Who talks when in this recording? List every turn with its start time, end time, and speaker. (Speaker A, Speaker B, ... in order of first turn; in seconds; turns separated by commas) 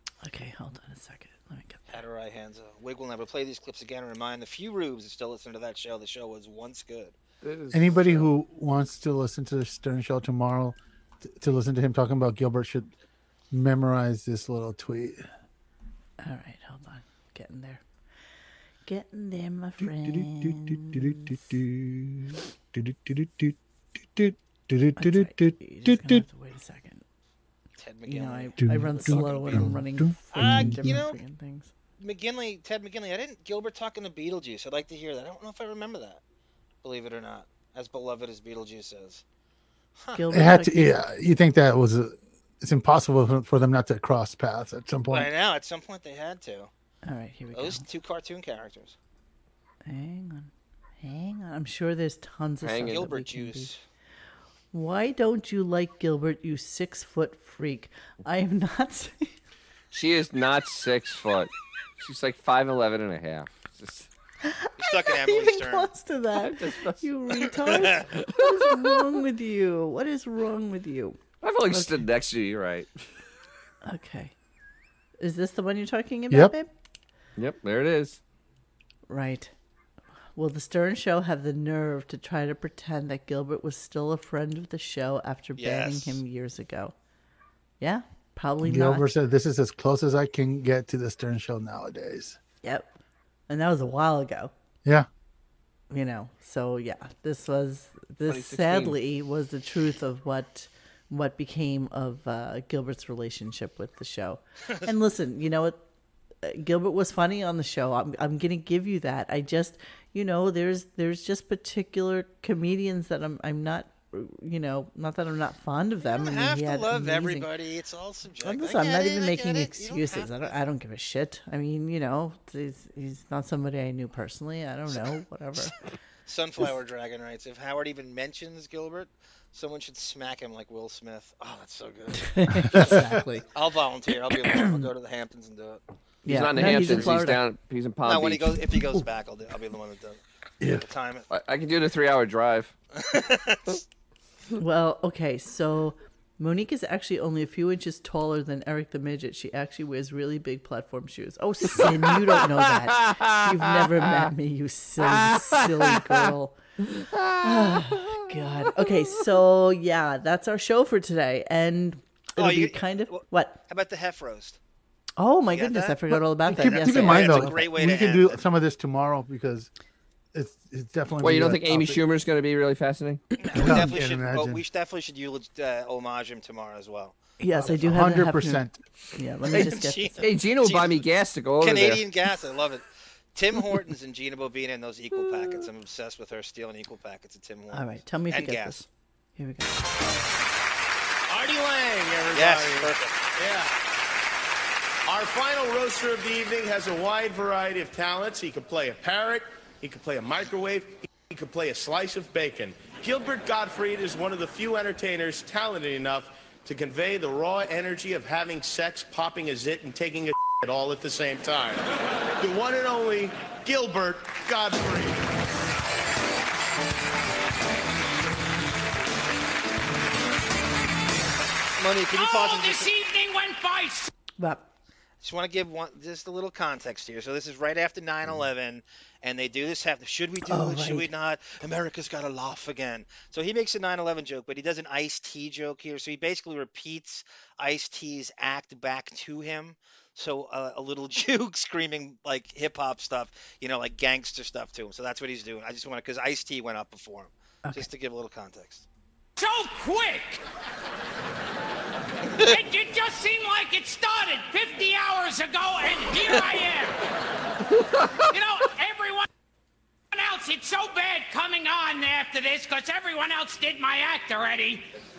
Speaker A: 0.2-1.9, Speaker B: 1.9-7.2, Speaker C: 7.4-8.3, Speaker D: 7.7-12.9, Speaker D: 13.5-15.2, Speaker A: 16.2-17.8, Speaker A: 18.9-21.4, Speaker D: 19.8-26.2, Speaker A: 25.0-27.0, Speaker B: 27.8-29.8, Speaker A: 28.1-31.7, Speaker D: 28.6-31.1, Speaker B: 30.3-31.2, Speaker B: 32.0-36.2, Speaker B: 36.8-39.2, Speaker B: 40.0-40.2, Speaker A: 40.1-41.0, Speaker D: 40.3-45.3, Speaker B: 45.1-46.7, Speaker A: 47.1-47.9, Speaker B: 47.5-49.0, Speaker A: 49.9-50.5, Speaker A: 51.0-53.7, Speaker C: 52.6-53.1, Speaker B: 52.9-53.8, Speaker A: 54.7-59.3, Speaker C: 59.9-64.1, Speaker A: 64.4-71.2, Speaker B: 64.8-65.9, Speaker C: 66.4-67.0, Speaker B: 67.7-68.1, Speaker C: 71.4-72.9, Speaker A: 71.7-72.0, Speaker A: 73.8-74.3, Speaker A: 75.2-76.7, Speaker C: 77.4-78.2, Speaker A: 79.1-79.5, Speaker A: 80.4-86.9, Speaker B: 85.6-86.2, Speaker A: 87.8-89.1, Speaker D: 88.6-92.4, Speaker A: 92.6-92.9, Speaker A: 93.5-94.5, Speaker A: 95.9-105.8, Speaker C: 98.3-99.0, Speaker A: 106.4-117.5, Speaker B: 116.0-120.6, Speaker A: 118.4-125.8, Speaker B: 126.3-135.8, Speaker A: 132.2-133.5, Speaker D: 132.7-133.1, Speaker A: 136.2-137.4, Speaker C: 136.3-138.6, Speaker B: 136.7-137.1, Speaker B: 138.0-141.3, Speaker C: 141.3-142.7, Speaker B: 143.0-143.8, Speaker A: 144.6-156.6, Speaker C: 153.0-153.4, Speaker A: 157.4-163.6, Speaker B: 162.4-164.6, Speaker A: 165.2-167.7, Speaker B: 165.5-168.4, Speaker D: 166.5-169.7, Speaker D: 170.3-172.0, Speaker C: 171.2-173.2, Speaker B: 173.4-177.2, Speaker D: 173.6-174.6, Speaker A: 177.4-178.7, Speaker D: 177.6-178.8, Speaker A: 179.2-180.3, Speaker B: 179.5-188.8, Speaker C: 180.2-182.0, Speaker A: 187.7-189.9, Speaker E: 191.3-193.7, Speaker B: 192.3-193.2, Speaker E: 195.1-211.9, Speaker E: 212.4-215.2, Speaker B: 221.8-222.9, Speaker F: 222.2-224.1, Speaker A: 224.4-224.7, Speaker B: 225.2-248.9, Speaker A: 230.5-231.1, Speaker F: 249.4-250.4, Speaker F: 252.4-257.0, Speaker F: 258.3-259.3, Speaker F: 260.1-264.8